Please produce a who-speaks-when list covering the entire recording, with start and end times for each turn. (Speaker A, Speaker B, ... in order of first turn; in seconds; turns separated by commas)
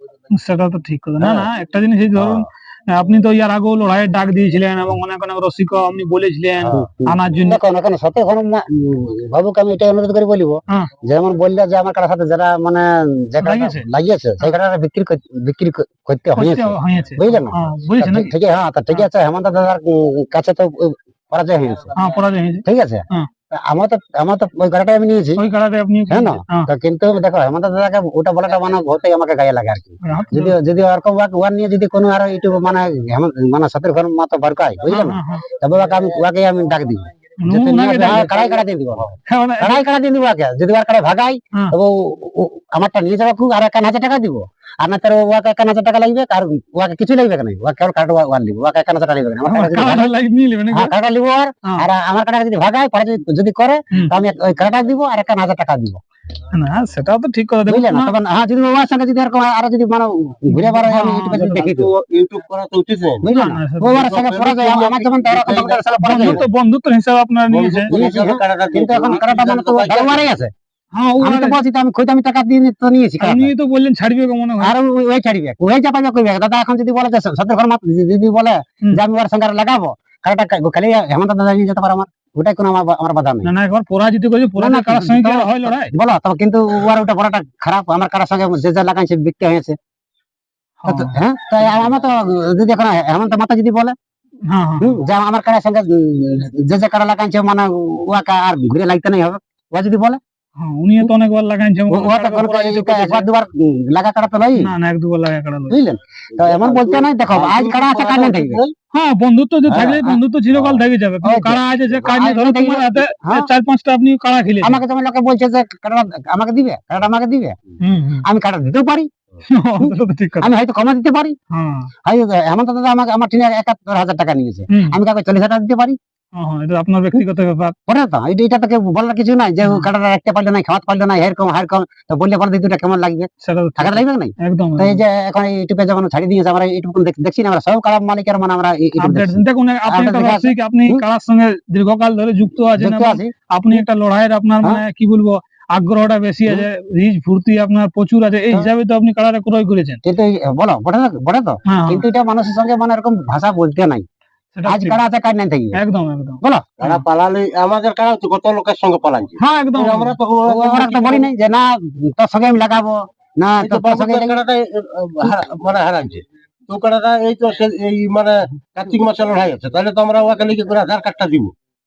Speaker A: 0.3-7.6, Speaker B: 1.2-1.5, Speaker B: 2.1-2.5, Speaker C: 6.7-21.9, Speaker A: 13.4-13.8, Speaker A: 16.4-18.3, Speaker A: 21.9-23.3, Speaker C: 22.6-25.4, Speaker A: 25.4-26.7, Speaker C: 26.1-50.1, Speaker A: 30.0-30.5, Speaker A: 34.9-35.5, Speaker A: 37.4-38.3, Speaker A: 39.2-39.8, Speaker A: 49.5-50.9, Speaker C: 50.7-56.0, Speaker A: 56.5-58.1, Speaker C: 57.7-61.9, Speaker A: 60.5-61.7, Speaker B: 61.5-63.3, Speaker C: 63.2-66.4, Speaker A: 63.3-64.1, Speaker B: 63.9-66.4, Speaker A: 66.0-67.9, Speaker B: 67.5-70.3, Speaker C: 67.9-70.5, Speaker A: 70.9-71.6, Speaker C: 71.2-73.5, Speaker A: 73.2-74.8, Speaker C: 74.6-83.5, Speaker A: 83.4-85.9, Speaker C: 84.6-89.8, Speaker A: 90.8-91.2, Speaker C: 90.9-94.0, Speaker A: 94.5-95.0, Speaker C: 94.8-100.2, Speaker A: 100.6-103.3, Speaker C: 101.9-104.7, Speaker A: 104.6-105.8, Speaker C: 105.7-108.6, Speaker B: 106.3-108.7, Speaker A: 108.9-114.8, Speaker B: 109.7-110.0, Speaker C: 109.7-110.2, Speaker B: 110.5-110.8, Speaker C: 111.2-113.5, Speaker C: 114.6-117.6, Speaker A: 117.8-118.3, Speaker C: 118.2-119.1, Speaker A: 119.4-120.5, Speaker C: 119.8-121.4, Speaker A: 121.5-121.9, Speaker C: 122.1-126.0, Speaker A: 124.7-125.0, Speaker A: 126.3-127.8, Speaker C: 127.9-141.0, Speaker A: 129.6-129.9, Speaker A: 133.4-135.0, Speaker A: 139.0-150.0, Speaker C: 142.8-143.8, Speaker C: 150.0-154.0, Speaker A: 151.7-152.0, Speaker A: 154.5-155.0, Speaker C: 154.7-155.8, Speaker A: 155.8-157.0, Speaker C: 156.4-156.7, Speaker B: 156.8-161.3, Speaker A: 159.4-160.1, Speaker C: 160.4-164.4, Speaker B: 163.6-171.5